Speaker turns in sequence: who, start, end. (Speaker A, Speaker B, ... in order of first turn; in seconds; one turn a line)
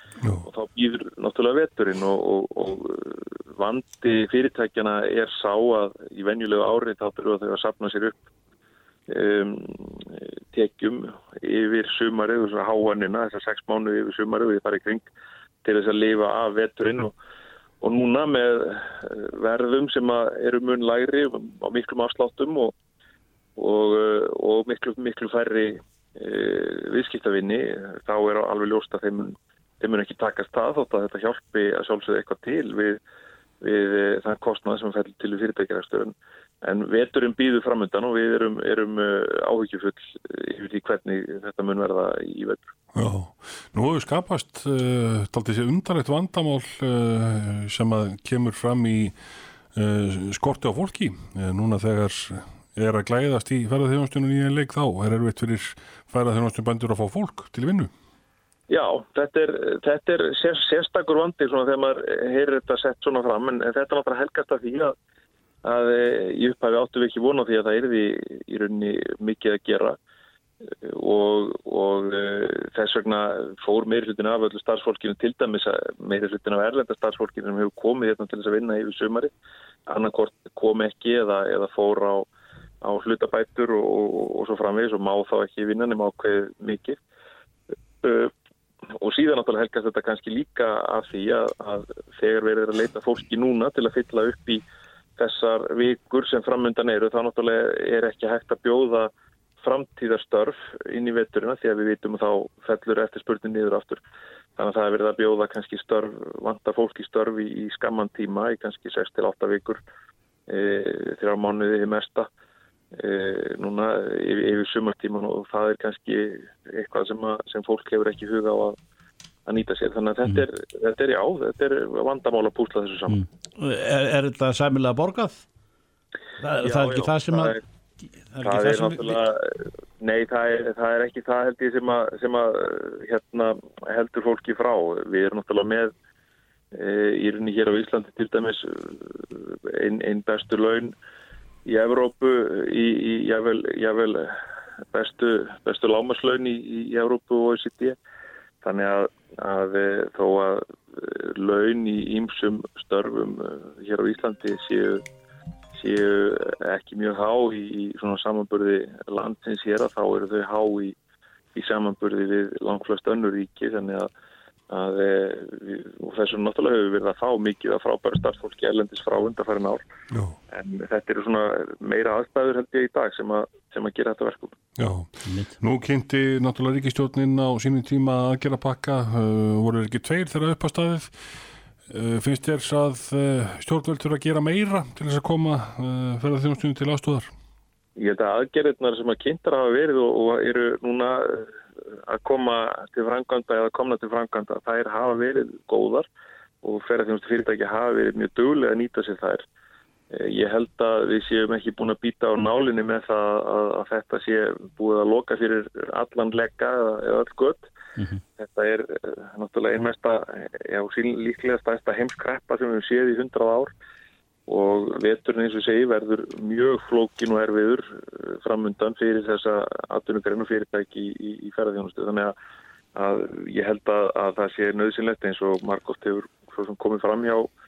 Speaker A: 0.5-8.2
Speaker A: 9.1-15.1
Speaker A: 15.6-17.1
Speaker A: 17.8-22.7
Speaker A: 23.6-33.0
Speaker A: 33.6-42.7
Speaker B: 42.9-49.1
Speaker B: 49.7-57.9
Speaker A: 58.7-64.9
Speaker A: 65.6-70.0
Speaker A: 70.7-79.3
Speaker A: 79.9-82.3
Speaker A: 82.8-87.0
Speaker A: 88.0-88.3
Speaker A: 89.0-94.6
Speaker A: 95.2-99.1
Speaker A: 99.6-104.0
Speaker A: 104.6-109.8
Speaker A: 110.5-112.3
Speaker A: 112.9-118.8
Speaker A: 119.5-123.2
Speaker C: 123.1-125.5
Speaker C: 126.4-127.6
Speaker A: 126.6-127.6
Speaker C: 128.3-129.2
Speaker A: 128.4-135.9
Speaker A: 136.7-140.9
Speaker A: 141.7-144.4
Speaker A: 144.9-148.0
Speaker A: 148.6-155.0
Speaker A: 155.7-160.9
Speaker A: 161.6-164.1
Speaker A: 164.7-169.8
Speaker B: 170.1-170.4
Speaker A: 170.5-174.6
Speaker B: 174.8-181.2
Speaker C: 175.2-175.6
Speaker B: 181.9-187.3
Speaker A: 188.0-191.5
Speaker A: 192.1-196.1
Speaker A: 196.6-199.4
Speaker A: 200.1-207.7
Speaker A: 208.4-213.7
Speaker A: 214.5-222.3
Speaker A: 223.0-227.5